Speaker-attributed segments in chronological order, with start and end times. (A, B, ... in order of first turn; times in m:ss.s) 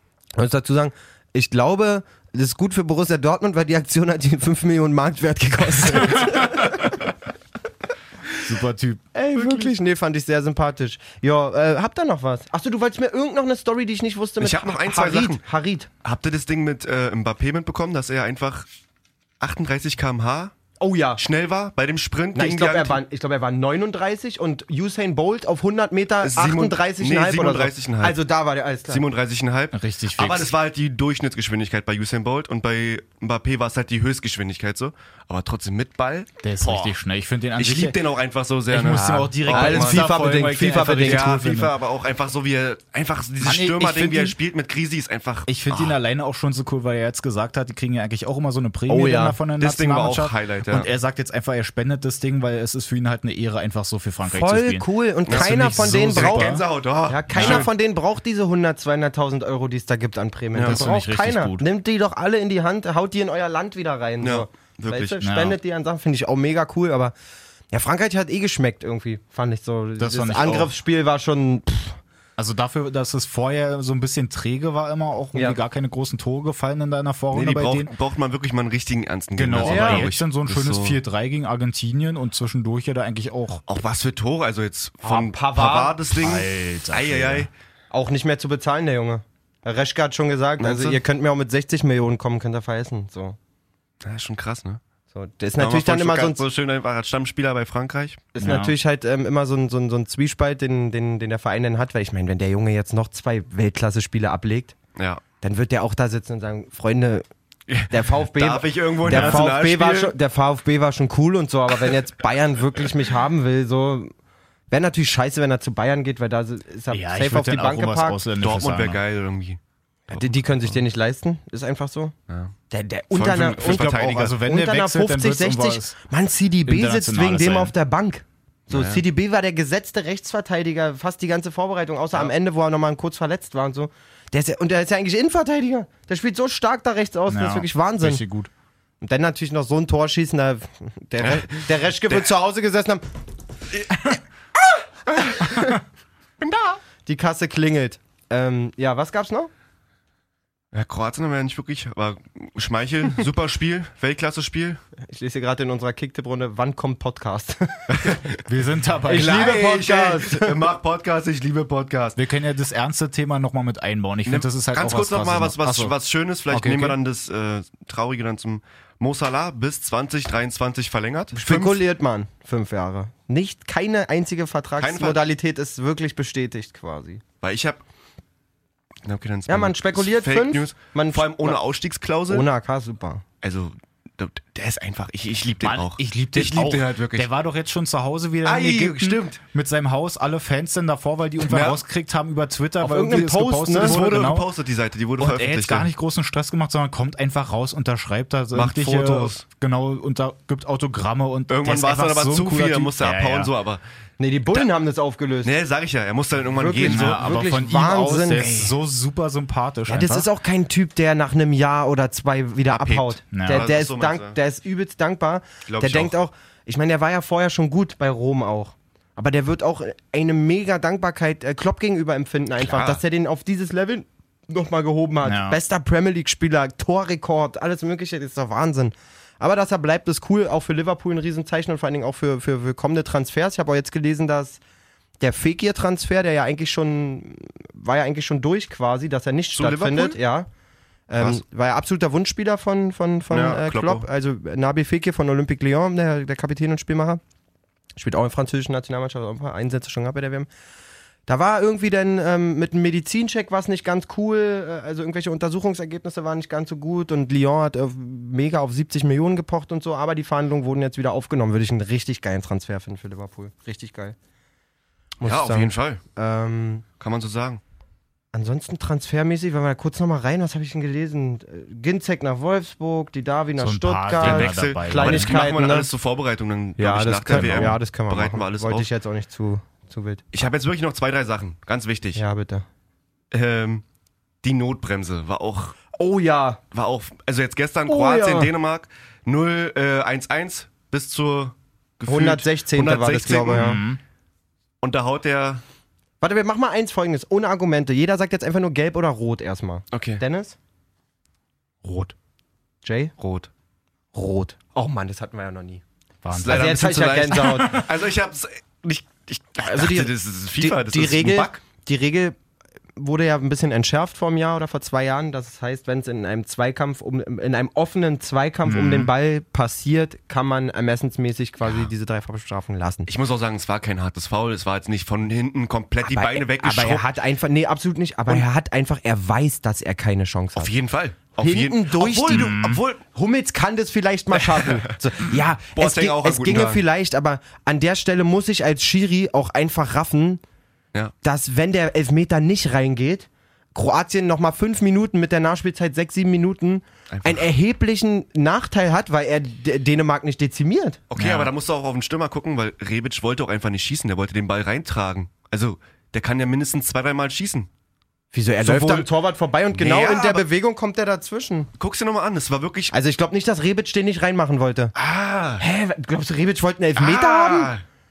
0:00.4-0:07.0 A
0:08.4-0:09.0 B
0:09.1-0:15.9 A
0:14.4-0:15.4 C
0:16.0-0:18.7 C
0:19.4-0:20.5 C
0:20.8-0:21.2 A
0:21.2-0:23.0 C
0:22.3-0:29.0 A
0:26.2-0:28.2 C
0:28.9-0:36.9 C
0:29.7-0:30.5 B
0:36.4-0:38.0 B
0:37.6-0:40.1 C
0:38.7-0:41.7 B
0:39.5-0:41.4 A
0:41.0-0:46.0 C
0:43.4-0:44.3 B
0:45.5-0:56.6 B
0:48.9-0:49.4 A
0:49.6-0:50.9 C
0:54.2-1:07.1 A
0:55.3-0:57.7 C
0:57.3-0:57.6 B
1:00.5-1:00.9 C
1:00.6-1:01.6 B
1:04.2-1:05.2 C
1:05.2-1:05.6 B
1:07.7-1:12.0 A
1:10.0-1:10.7 B
1:12.4-1:17.9 B
1:17.3-1:21.0 C
1:19.4-1:23.6 B
1:19.6-1:20.1 A
1:23.7-1:27.5 C
1:25.0-1:26.0 A
1:26.2-1:27.5 B
1:27.9-1:33.4 A
1:30.6-1:31.0 C
1:34.0-1:34.8 C
1:35.1-1:36.4 A
1:35.6-1:38.3 C
1:38.3-1:44.8 A
1:38.4-1:38.7 B
1:45.0-1:45.2 C
1:45.4-1:47.2 A
1:47.7-1:50.1 C
1:47.9-1:54.1 A
1:49.0-1:49.5 B
1:54.7-1:58.2 A
1:56.9-1:59.0 B
1:58.4-2:00.8 C
2:00.1-2:02.1 A
2:02.3-2:02.5 C
2:02.7-2:18.2 A
2:03.1-2:04.4 C
2:03.6-2:06.0 B
2:06.6-2:07.7 B
2:08.7-2:09.0 C
2:17.3-2:18.5 B
2:19.0-2:23.0 A
2:21.2-2:22.1 C
2:25.1-2:25.8 A
2:26.4-2:26.8 C
2:27.0-2:29.5 A
2:30.7-2:34.8 C
2:35.0-2:38.1 A
2:37.9-2:38.4 C
2:38.4-2:39.5 B
2:39.1-2:40.6 A
2:39.1-2:42.2 C
2:42.2-2:45.9 B
2:44.2-2:51.8 C
2:46.5-2:47.0 B
2:51.3-2:57.2 A
2:54.8-2:55.2 C
2:57.4-2:57.8 C
2:59.0-3:02.5 C
2:59.5-3:01.6 A
3:02.3-3:03.2 A
3:03.4-3:07.3 C
3:05.6-3:14.5 B
3:08.4-3:09.4 C
3:11.4-3:11.8 C
3:12.8-3:14.0 A
3:13.7-3:15.9 C
3:15.2-3:23.5 B
3:18.5-3:19.4 C
3:21.5-3:23.8 C
3:24.2-3:25.5 A
3:25.4-3:27.3 C
3:26.5-3:28.6 A
3:26.9-3:30.3 B
3:28.3-3:28.7 C
3:29.9-3:54.6 A
3:32.7-3:34.4 C
3:33.3-3:33.6 B
3:35.6-3:36.2 C
3:42.6-3:43.0 C
3:45.2-3:45.6 B
3:55.2-4:00.5 A
3:59.5-4:00.2 C
4:01.1-4:07.2 A
4:03.3-4:04.0 C
4:08.0-4:10.5 A
4:11.3-4:24.2 A
4:25.2-4:26.8 A
4:25.2-4:26.0 C
4:27.0-4:27.6 C
4:28.3-4:35.9 A
4:33.6-4:35.4 B
4:34.2-4:38.9 C
4:36.8-4:40.2 A
4:37.3-4:37.8 B
4:40.3-4:42.2 C
4:42.2-4:42.6 A
4:43.3-4:43.8 C
4:44.4-4:45.8 C
4:45.9-4:46.6 A
4:46.7-4:53.8 C
4:47.8-4:48.5 A
4:52.1-4:53.8 A
4:53.5-4:54.0 B
4:54.8-4:55.6 C
4:56.2-5:00.6 A
4:59.9-5:00.2 C
5:01.8-5:02.1 B
5:02.8-5:03.1 A
5:03.2-5:03.5 C
5:04.1-5:05.8 A
5:06.2-5:06.8 B
5:06.3-5:11.6 C
5:06.4-5:07.9 A
5:09.6-5:12.4 A
5:13.0-5:23.1 A
5:18.7-5:19.0 B
5:23.1-5:27.1 C
5:26.0-5:30.7 A
5:30.6-5:33.0 C
5:31.4-5:40.4 A
5:32.3-5:32.8 B
5:34.5-5:34.9 C
5:35.7-5:36.8 C
5:41.2-5:51.0 A
5:47.1-5:47.5 C
5:51.1-5:57.7 C
5:51.2-5:51.5 B
5:58.3-6:01.7 A
5:58.6-5:59.1 C
5:59.7-6:00.4 C
6:01.8-6:02.9 C
6:02.9-6:04.9 A
6:04.9-6:05.6 C
6:05.6-6:07.7 A
6:07.0-6:07.8 C